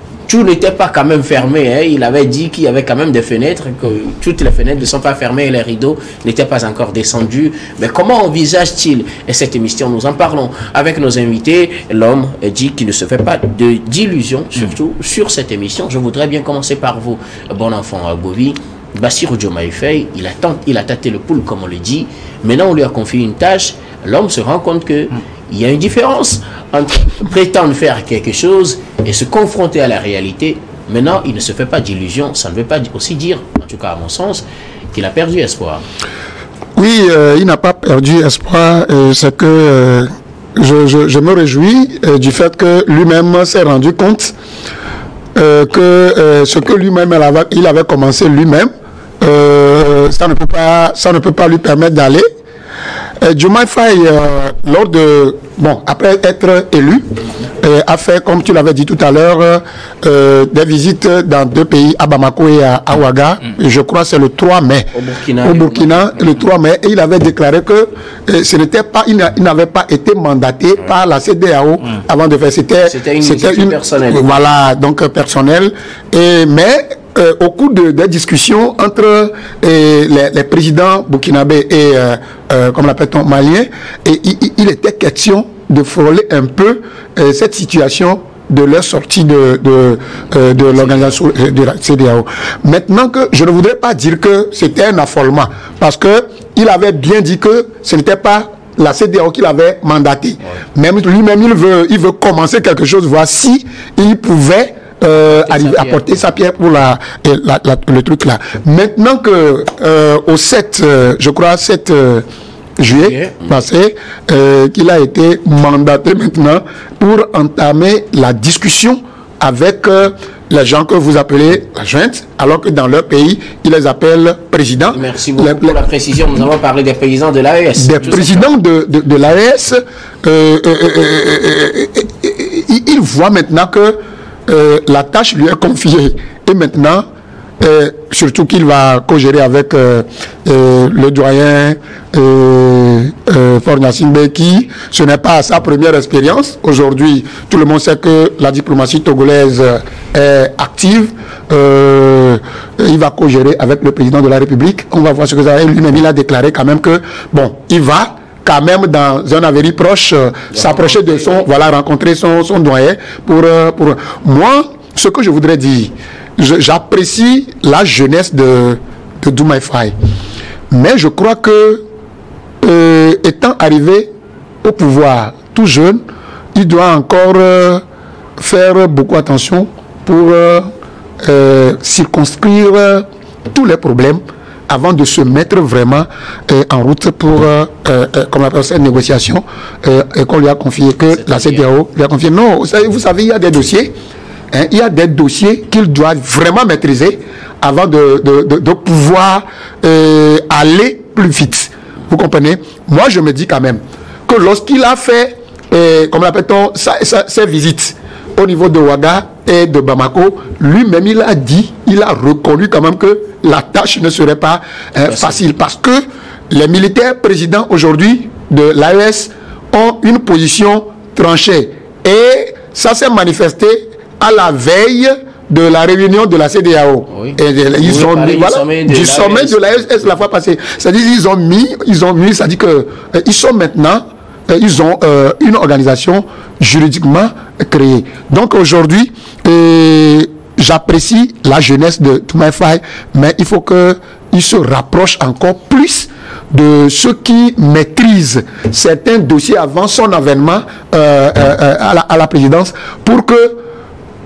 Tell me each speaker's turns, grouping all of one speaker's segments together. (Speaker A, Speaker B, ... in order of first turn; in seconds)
Speaker A: 0.3-35.8, 64.9-66.1, 72.9-74.3, 90.7-91.1, 105.2-106.0, 112.9-113.5, 124.9-128.2, 160.5-161.5, 191.1-191.6, 215.1-215.4, 227.1-229.6
Speaker B: 36.8-44.3, 45.4-52.2, 53.2-57.0, 57.6-112.2, 112.8-125.8, 127.8-137.0, 137.6-169.9, 170.7-171.8, 172.6-174.1, 174.6-176.0, 176.6-177.8, 178.4-180.7, 181.2-193.9, 194.5-253.6